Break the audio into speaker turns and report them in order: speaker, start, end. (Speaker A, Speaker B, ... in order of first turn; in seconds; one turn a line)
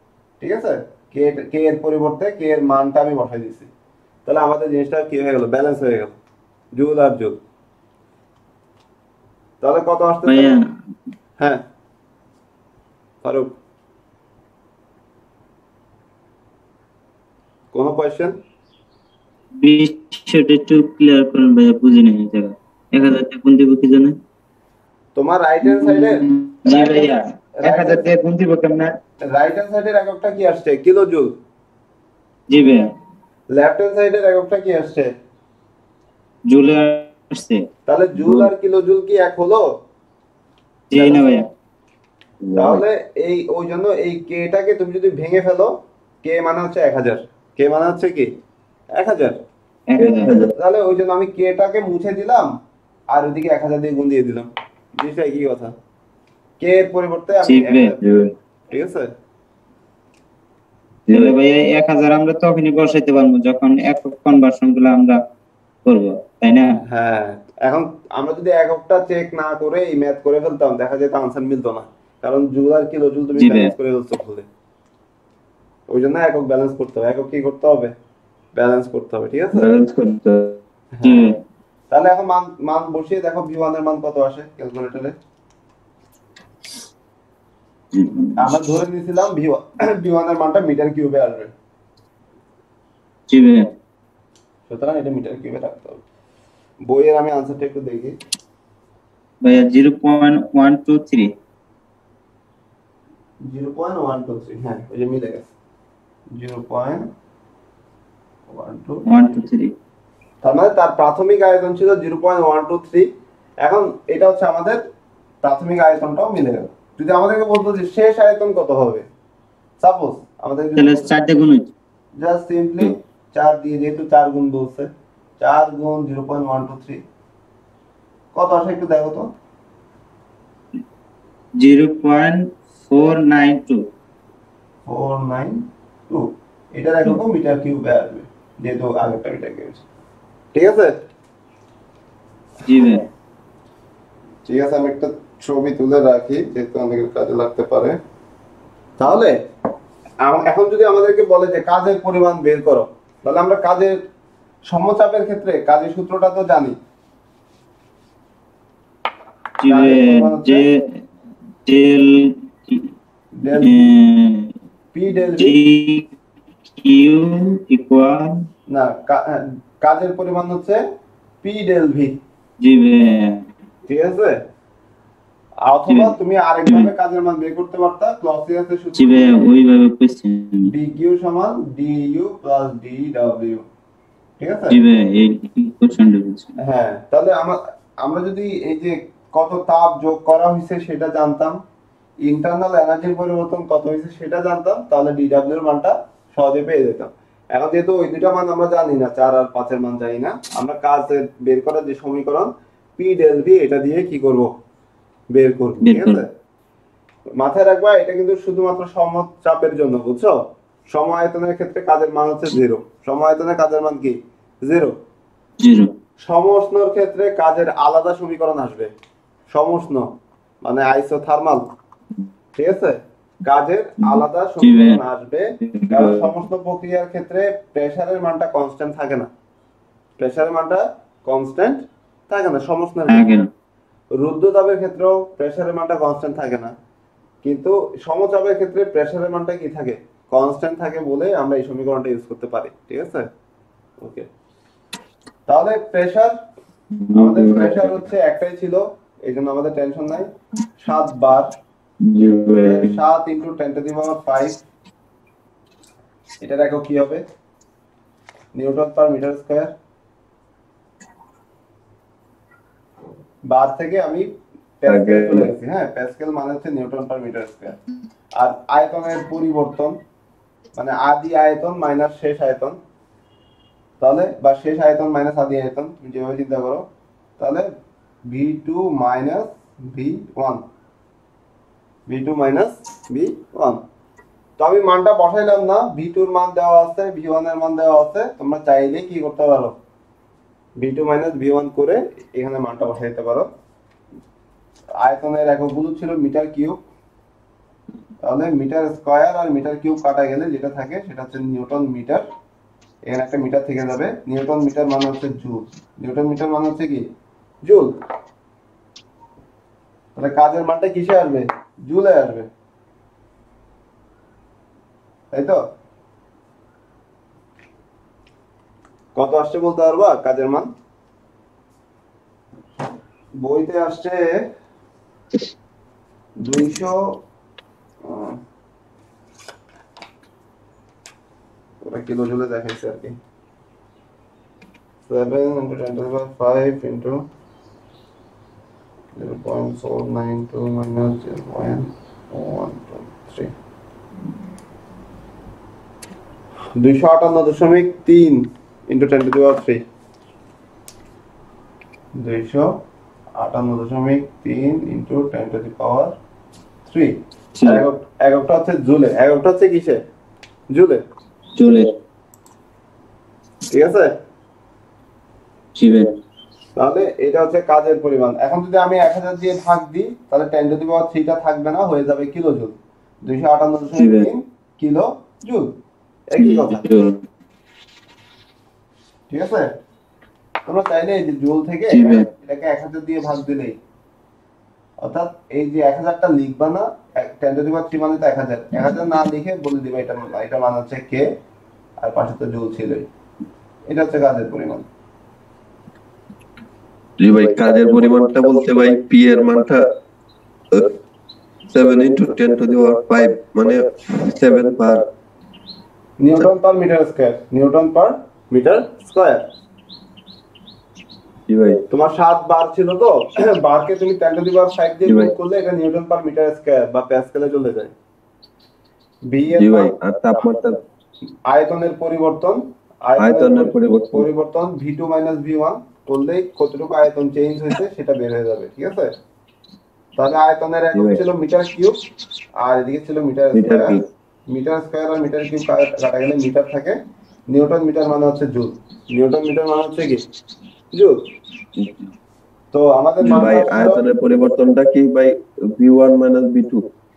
Speaker A: 0.4-3.7
Speaker A: 4.2-6.2
Speaker A: 6.8-7.4
Speaker A: 9.6-10.6
Speaker B: 10.2-10.6
Speaker A: 11.4-11.6
Speaker A: 13.2-13.6
Speaker A: 17.7-18.4
Speaker B: 19.6-24.1
Speaker A: 25.1-28.1
Speaker B: 25.6-28.9
Speaker A: 29.3-31.4
Speaker B: 32.5-32.9
Speaker A: 33.5-35.1
Speaker B: 36.5-37.6
Speaker A: 37.9-39.8
Speaker C: 38.2-38.5
Speaker B: 40.9-41.5
Speaker A: 40.9-41.3
Speaker C: 42.4-42.8
Speaker A: 42.5-48.3
Speaker A: 49.0-49.4
Speaker B: 49.9-50.3
Speaker C: 50.0-50.5
Speaker A: 50.5-52.6
Speaker A: 53.1-55.7
Speaker A: 56.6-58.0
Speaker B: 57.4-57.9
Speaker C: 58.0-58.3
Speaker A: 58.7-59.1
Speaker C: 61.1-61.4
Speaker B: 61.1-65.2
Speaker B: 65.8-66.8
Speaker A: 66.9-74.5
Speaker B: 73.3-73.7
Speaker A: 75.9-77.9
Speaker A: 78.5-79.7
Speaker C: 79.5-80.6
Speaker A: 81.0-81.3
Speaker B: 81.0-81.3
Speaker A: 81.9-85.2
Speaker B: 87.9-88.3
Speaker A: 88.4-91.5
Speaker B: 93.3-93.7
Speaker A: 94.7-96.0
Speaker A: 96.9-98.1
Speaker B: 99.4-101.3
Speaker A: 103.5-105.5
Speaker A: 106.3-107.1
Speaker A: 108.5-109.4
Speaker B: 109.1-109.7
Speaker A: 110.4-113.1
Speaker A: 113.6-114.8
Speaker A: 115.4-119.0
Speaker A: 119.8-121.1
Speaker B: 120.8-121.7
Speaker A: 122.2-127.0
Speaker A: 128.3-129.3
Speaker B: 131.6-133.9
Speaker A: 134.9-139.8
Speaker A: 140.5-140.9
Speaker B: 142.6-143.0
Speaker A: 144.4-148.0
Speaker A: 149.0-149.3
Speaker A: 150.2-154.0
Speaker A: 154.7-156.8
Speaker B: 159.6-160.7
Speaker A: 159.7-160.7
Speaker B: 161.7-162.9
Speaker A: 163.3-163.8
Speaker B: 163.5-164.5
Speaker A: 164.9-165.6
Speaker B: 165.4-166.1
Speaker B: 166.8-168.4
Speaker A: 168.7-170.8
Speaker A: 171.4-172.2
Speaker B: 172.6-173.4
Speaker A: 173.9-174.4
Speaker A: 175.6-179.4
Speaker B: 175.9-176.1
Speaker B: 178.9-180.7
Speaker A: 180.6-183.6
Speaker A: 184.4-184.8
Speaker B: 184.7-186.5
Speaker A: 186.6-191.6
Speaker A: 192.2-204.5
Speaker A: 205.3-206.3
Speaker B: 205.8-206.2
Speaker A: 207.4-210.4
Speaker A: 210.9-214.9
Speaker B: 215.6-215.9
Speaker A: 216.2-218.9
Speaker A: 219.5-220.1
Speaker A: 220.6-221.6
Speaker A: 222.6-229.3
Speaker B: 224.6-225.0
Speaker B: 225.7-226.3
Speaker A: 230.2-233.3
Speaker B: 233.1-233.5
Speaker A: 234.1-236.7
Speaker A: 237.4-243.3
Speaker A: 244.0-244.3
Speaker A: 245.5-246.4
Speaker C: 247.1-248.0
Speaker A: 247.1-251.6
Speaker C: 252.0-253.0
Speaker A: 252.6-254.6
Speaker A: 256.4-257.2
Speaker A: 258.6-259.7
Speaker A: 263.5-264.3
Speaker A: 264.8-267.8
Speaker C: 264.9-265.5
Speaker A: 268.4-270.0
Speaker A: 270.8-272.8
Speaker A: 274.0-276.9
Speaker A: 277.4-277.7
Speaker A: 278.3-280.6
Speaker A: 282.1-283.8
Speaker A: 284.6-289.8
Speaker A: 290.8-293.5
Speaker A: 295.0-296.8
Speaker A: 298.2-302.2
Speaker A: 303.1-307.0
Speaker A: 307.6-307.9
Speaker A: 310.1-312.5
Speaker A: 315.3-315.6
Speaker A: 319.1-320.7
Speaker A: 323.4-324.4
Speaker A: 326.4-327.2
Speaker A: 328.0-328.4
Speaker A: 331.8-333.2
Speaker A: 335.1-337.2
Speaker A: 339.1-343.5
Speaker A: 346.8-349.8
Speaker A: 352.1-352.8
Speaker A: 353.4-356.1
Speaker A: 356.9-360.0
Speaker B: 357.6-357.8
Speaker A: 360.7-361.0
Speaker B: 361.6-361.9
Speaker A: 363.7-364.1
Speaker B: 365.8-366.1
Speaker A: 366.8-376.8
Speaker B: 373.9-374.3
Speaker B: 376.4-377.2
Speaker A: 379.3-379.7
Speaker A: 380.6-383.8
Speaker B: 381.9-382.2
Speaker A: 385.0-391.3
Speaker A: 392.0-393.1
Speaker A: 393.9-394.9
Speaker C: 397.2-399.9
Speaker C: 401.7-405.1
Speaker A: 406.2-409.5
Speaker C: 411.5-411.8
Speaker A: 411.9-417.9
Speaker C: 415.1-415.3
Speaker A: 419.3-419.9
Speaker C: 419.5-420.8
Speaker A: 421.5-429.1
Speaker C: 423.2-424.3
Speaker A: 430.2-432.0
Speaker C: 430.9-431.2
Speaker A: 432.6-434.0
Speaker C: 433.5-434.1
Speaker A: 434.5-437.0
Speaker A: 437.5-440.2
Speaker A: 440.9-441.2
Speaker A: 442.7-444.0
Speaker C: 443.2-446.9